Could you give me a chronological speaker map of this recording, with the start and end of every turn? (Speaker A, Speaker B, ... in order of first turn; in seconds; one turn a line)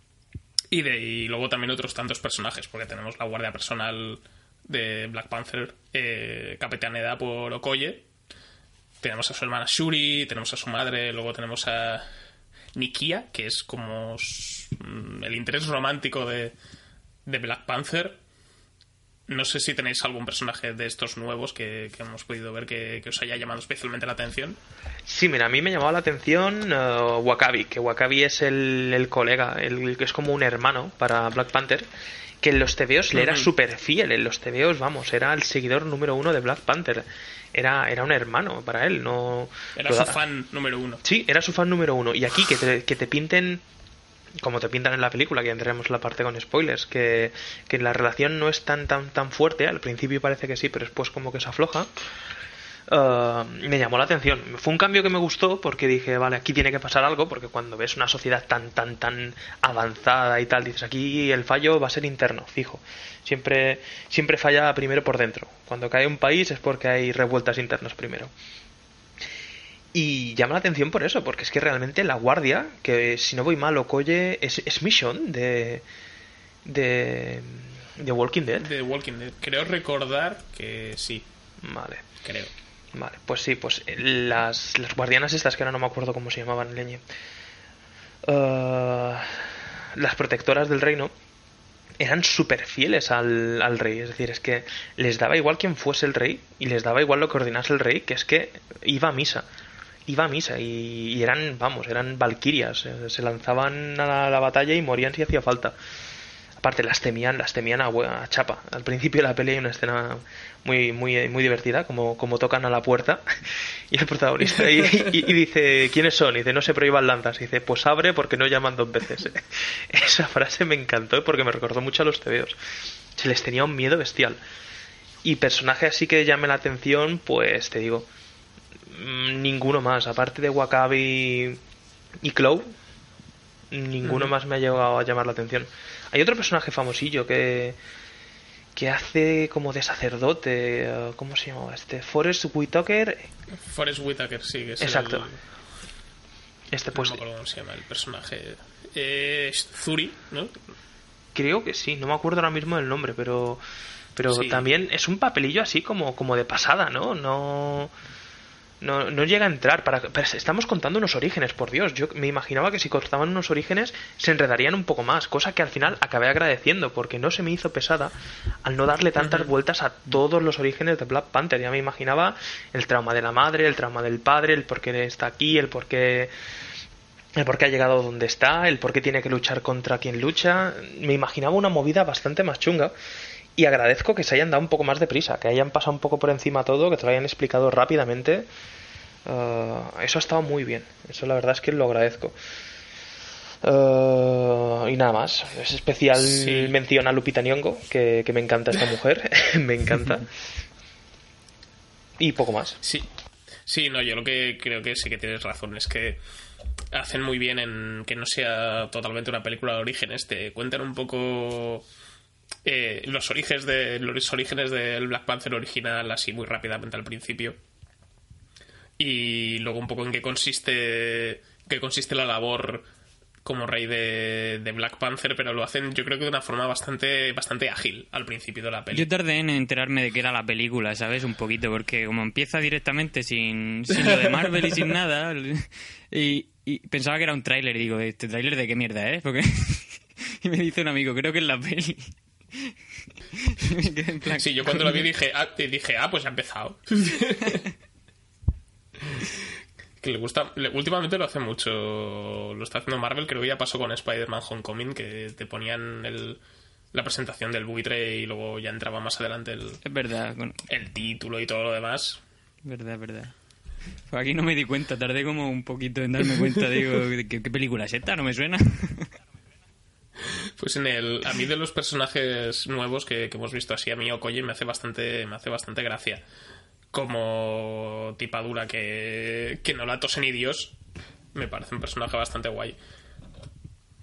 Speaker A: 0.7-8.1
Speaker A: 9.0-12.1
Speaker A: 12.7-16.5
Speaker A: 17.2-18.2
Speaker A: 19.3-24.6
Speaker B: 25.1-31.9
Speaker B: 32.4-40.2
Speaker A: 33.1-33.5
Speaker A: 39.8-41.0
Speaker B: 41.0-43.6
Speaker B: 44.4-51.9
Speaker B: 52.9-68.3
Speaker B: 69.9-75.8
Speaker B: 76.6-78.7
Speaker A: 78.6-81.2
Speaker B: 81.6-82.0
Speaker A: 82.2-82.5
Speaker B: 82.9-87.0
Speaker B: 88.2-91.1
Speaker B: 92.0-99.5
Speaker B: 100.1-105.7
Speaker B: 106.6-122.6
Speaker B: 123.1-124.4
Speaker B: 125.2-128.1
Speaker B: 128.9-131.6
Speaker B: 132.2-132.7
Speaker B: 133.7-137.8
Speaker A: 134.0-134.3
Speaker B: 138.7-143.3
Speaker A: 143.6-145.4
Speaker B: 144.8-145.3
Speaker B: 146.7-147.2
Speaker A: 146.9-150.6
Speaker B: 151.3-153.6
Speaker B: 154.2-157.9
Speaker A: 154.3-154.7
Speaker B: 158.8-176.3
Speaker A: 169.2-169.5
Speaker B: 177.3-182.9
Speaker B: 183.6-188.5
Speaker B: 189.2-192.4
Speaker B: 193.6-200.3
Speaker A: 196.2-196.7
Speaker B: 202.2-202.8
Speaker A: 203.7-206.2
Speaker A: 206.9-211.8
Speaker A: 212.6-217.6
Speaker A: 219.0-222.8
Speaker A: 223.4-229.1
Speaker C: 228.9-242.7
Speaker A: 233.9-234.9
Speaker C: 243.4-245.0
Speaker A: 244.4-247.6
Speaker A: 249.0-249.3
Speaker A: 250.0-256.4
Speaker A: 256.9-259.8
Speaker C: 259.8-260.6
Speaker A: 260.7-262.2
Speaker C: 262.6-263.3
Speaker C: 264.1-269.1
Speaker A: 270.6-276.2
Speaker A: 276.9-280.8
Speaker A: 281.3-282.8